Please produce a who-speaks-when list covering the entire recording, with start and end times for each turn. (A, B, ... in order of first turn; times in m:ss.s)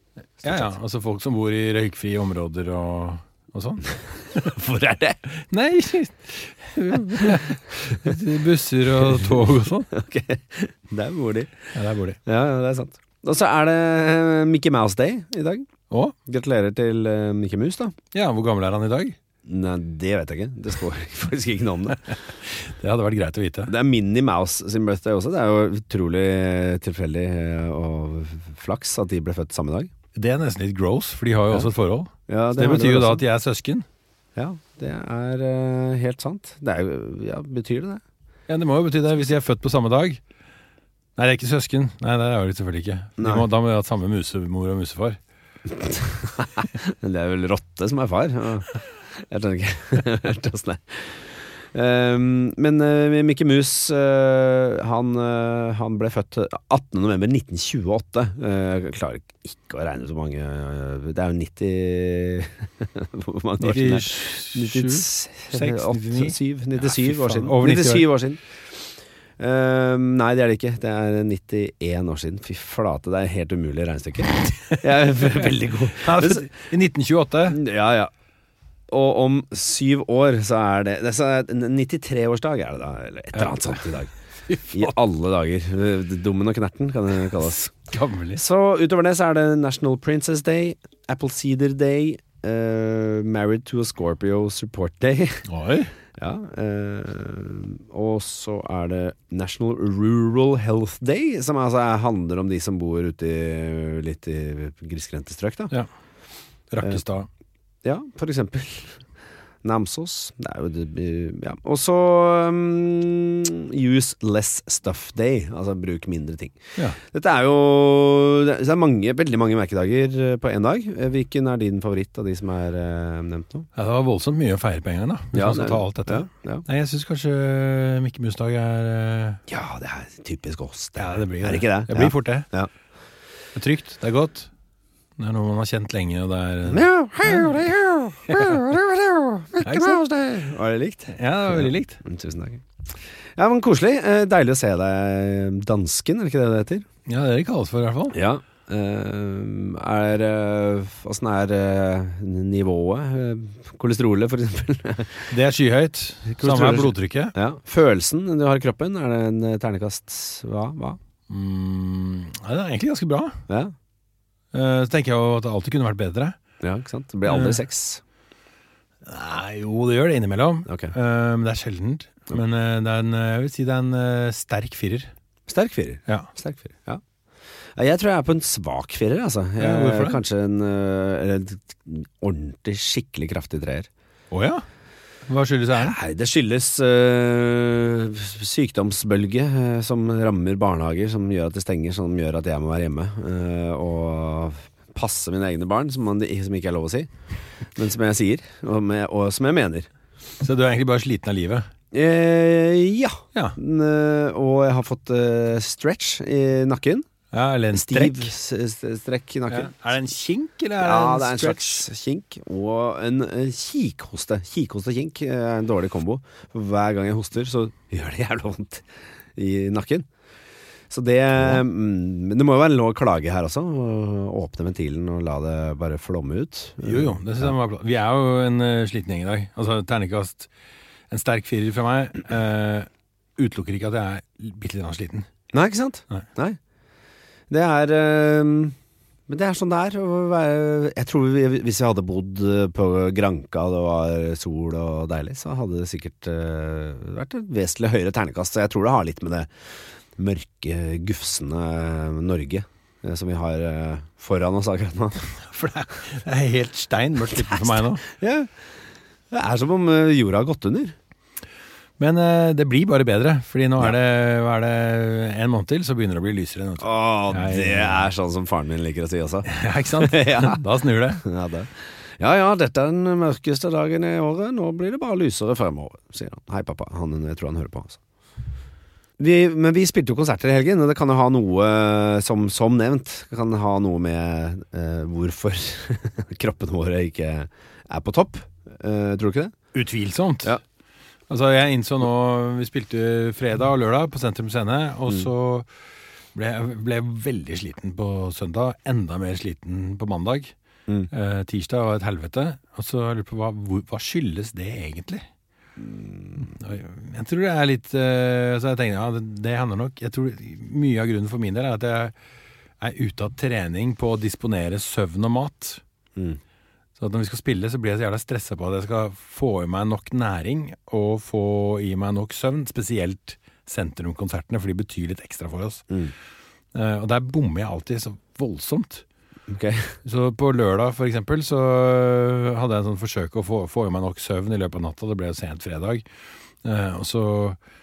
0:00.4-0:04.5 A
0:00.4-0:00.7 B
0:04.3-0:05.2 B
0:05.3-0:09.9 A
0:07.1-0:07.4 B
0:09.9-0:11.5 B
0:11.7-0:12.2 A
0:12.2-0:15.7 B
0:15.9-0:16.1 A
0:16.2-0:17.9 B
0:18.1-0:19.2 A
0:19.4-0:22.0 B
0:22.3-0:23.7 A
0:23.7-0:29.9 B
0:30.1-0:33.8 A
0:32.3-0:33.2 B
0:34.4-0:38.0 B
0:38.5-0:40.2 A
0:41.2-0:45.2 A
0:43.2-0:43.5 B
0:45.7-1:08.6 B
1:03.6-1:08.1 A
1:09.4-1:16.5 B
1:16.0-1:17.6 A
1:17.5-1:18.1 B
1:18.9-1:24.1 B
1:23.3-1:23.9 A
1:24.5-1:24.9 A
1:24.7-1:27.7 B
1:27.9-1:28.4 A
1:28.3-1:35.4 B
1:35.5-1:35.9 A
1:36.2-1:45.7 B
1:46.7-1:47.3 A
1:47.8-1:49.0 B
1:49.6-2:03.7 B
2:03.7-2:09.4 A
2:05.3-2:06.6 B
2:09.5-2:12.7 B
2:11.0-2:12.5 A
2:13.5-2:14.5 A
2:15.2-2:17.6 A
2:16.7-2:22.6 B
2:18.3-2:18.6 A
2:19.6-2:20.0 A
2:21.1-2:22.0 A
2:23.4-2:26.8 B
2:27.1-2:28.2 A
2:28.1-2:35.3 B
2:35.3-2:37.3 A
2:36.3-2:41.0 B
2:41.3-2:43.4 A
2:44.5-2:46.4 A
2:46.6-2:48.0 B
2:47.3-2:47.6 A
2:49.0-2:55.1 A
2:50.7-2:50.9 B
2:55.5-2:57.0 B
2:57.8-3:03.9 B
2:59.6-3:00.2 A
3:04.3-3:04.6 A
3:05.3-3:06.0 A
3:05.8-3:17.1 B
3:17.7-3:19.9 B
3:20.4-3:21.6 A
3:21.9-3:27.1 B
3:27.3-3:28.3 A
3:27.7-3:29.7 B
3:29.5-3:31.8 A
3:30.8-3:40.1 B
3:40.9-3:47.5 B
3:46.8-3:50.5 A
3:51.1-3:55.3 A
3:55.5-3:56.6 B
3:57.5-3:58.7 B
3:59.3-4:09.5 B
4:10.2-4:15.2 B
4:15.3-4:18.0 A
4:17.4-4:18.5 B
4:19.3-4:20.9 B
4:22.0-4:28.1 A
4:26.8-4:30.6 B
4:29.4-4:31.2 A
4:31.2-4:38.0 B
4:39.2-4:49.5 B
4:49.7-4:50.6 A
4:51.3-4:55.6 A
4:56.3-5:00.5 A
5:01.1-5:05.2 A
5:05.8-5:06.5 B
5:06.4-5:12.1 A
5:12.8-5:15.8 A
5:17.0-5:25.8 A
5:26.7-5:29.0 A
5:29.5-5:30.0 B
5:30.0-5:36.0 A
5:36.6-5:37.6 A